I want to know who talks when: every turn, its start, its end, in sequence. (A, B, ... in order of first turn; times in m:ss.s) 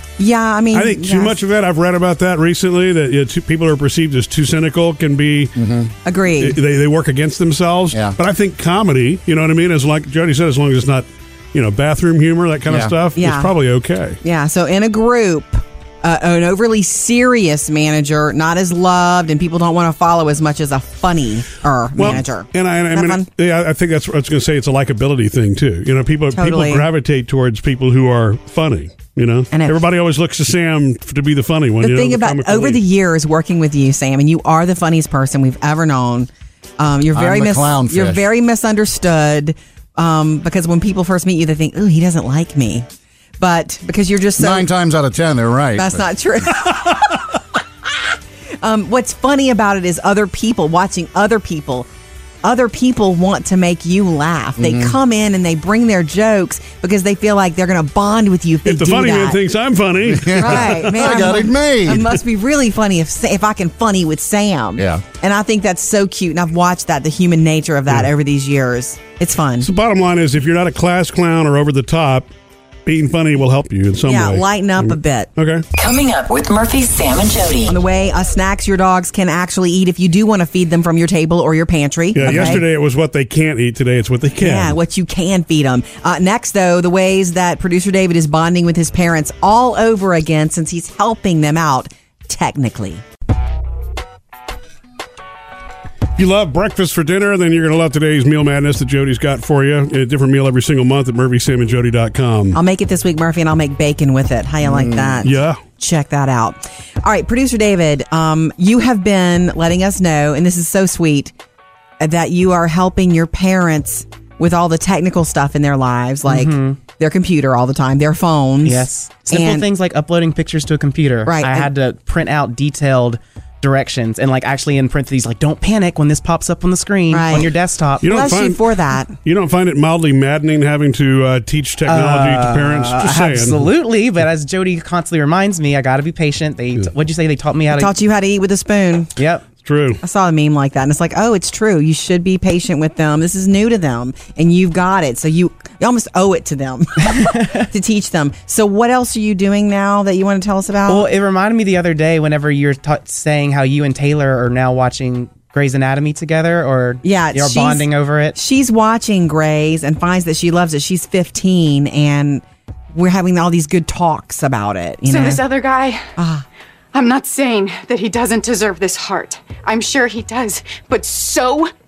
0:00.2-0:01.4 A
0:00.7-0:05.6 B
0:05.6-0:05.9 C
0:06.0-0:06.6 A
0:06.4-0:14.2 B
0:07.9-0:08.2 C
0:12.7-0:13.0 C
0:13.2-0:13.5 A
0:14.2-0:23.3 A
0:22.0-0:32.8 B
0:26.3-0:26.9 A
0:29.5-0:29.8 A
0:31.8-0:42.9 A
0:37.1-0:38.2 C
0:43.4-0:44.7 A
0:44.4-0:46.1 C
0:45.8-0:47.4 A
0:48.6-0:51.9 A
0:52.4-0:59.4 A
0:54.6-0:55.0 C
0:58.6-1:01.4 B
1:00.1-1:02.1 C
1:00.3-1:09.7 A
1:04.8-1:05.0 C
1:09.6-1:12.3 B
1:12.9-1:15.6 B
1:14.0-1:15.3 A
1:15.8-1:17.7 D
1:17.7-1:22.6 A
1:22.1-1:24.8 B
1:24.4-1:33.0 A
1:36.2-1:42.6 B
1:42.5-1:51.3 A
1:44.6-1:45.3 C
1:45.2-1:45.6 B
1:52.0-1:59.7 A
1:56.3-1:56.8 E
1:58.6-2:08.0 E
2:01.3-2:01.7 A
2:07.1-2:07.5 A
2:08.0-2:08.6 B
2:08.0-2:09.1 A
2:09.2-2:13.6 B
2:11.9-2:17.9 E
2:17.7-2:19.1 A
2:19.2-2:19.4 E
2:19.6-2:20.0 B
2:20.0-2:31.1 A
2:27.2-2:27.6 E
2:30.9-2:38.4 E
2:37.0-2:45.4 A
2:45.0-2:46.1 F
2:46.2-2:46.4 A
2:46.9-2:51.7 F